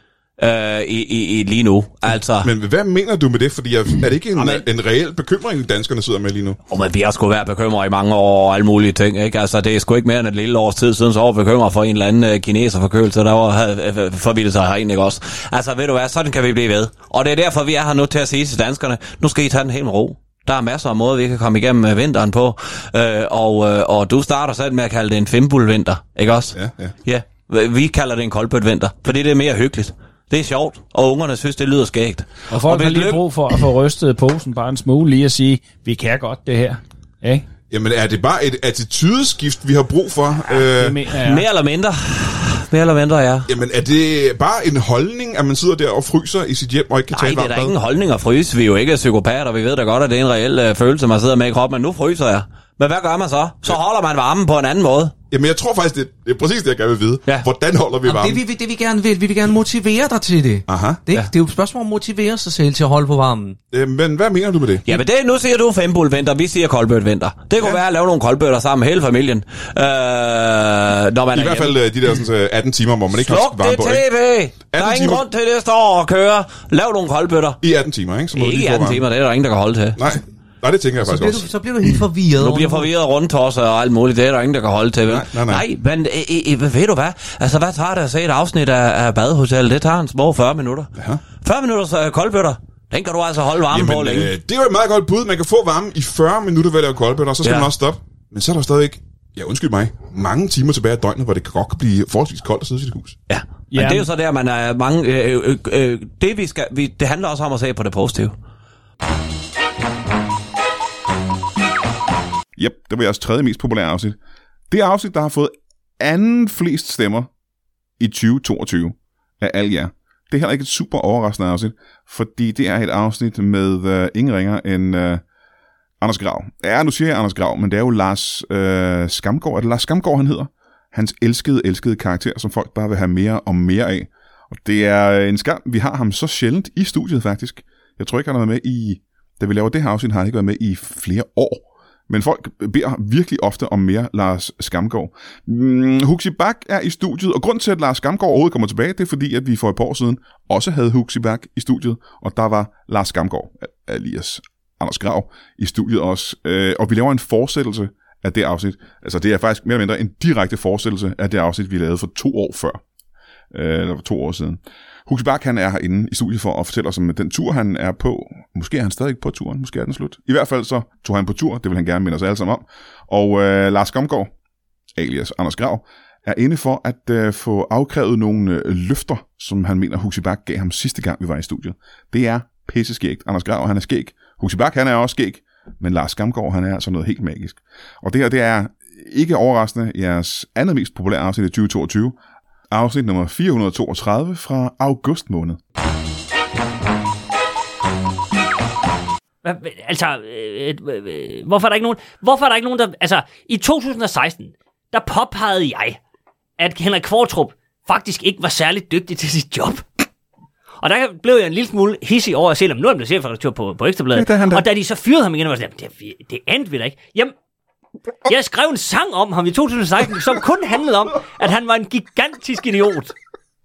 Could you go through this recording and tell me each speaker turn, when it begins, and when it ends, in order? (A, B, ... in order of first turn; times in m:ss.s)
0:00.4-0:02.5 A
0:02.4-0:06.6 B
0:04.3-0:04.6 A
0:06.7-0:33.2 A
0:26.5-0:26.9 B
0:32.5-0:37.4 C
0:37.7-0:41.1 B
0:40.5-0:41.4 C
0:41.2-0:43.5 A
0:43.5-0:47.7 B
0:47.1-0:55.1 A
0:55.3-0:58.4 B
0:58.0-1:03.6 D
1:00.7-1:01.0 B
1:03.7-1:05.0 B
1:04.8-1:11.8 A
1:11.3-1:14.0 B
1:13.1-1:17.6 A
1:14.7-1:15.2 B
1:17.6-1:19.0 B
1:18.3-1:20.0 A
1:20.0-1:21.5 B
1:21.0-1:22.9 D
1:22.4-1:34.3 A
1:25.0-1:25.6 B
1:31.0-1:31.2 B
1:33.7-1:43.2 B
1:37.4-1:37.7 A
1:43.3-1:48.4 A
1:43.7-1:44.1 C
1:52.6-1:54.2 B
1:54.7-1:57.3 B
1:58.0-2:05.2 B
2:06.0-2:42.8 B
2:43.5-2:54.3 B
2:55.0-3:12.2 B
3:12.7-3:15.6 B
3:19.4-3:26.0 E
3:26.6-3:29.8 E
3:30.8-3:37.3 E
3:34.1-3:34.6 B
3:38.2-3:43.1 E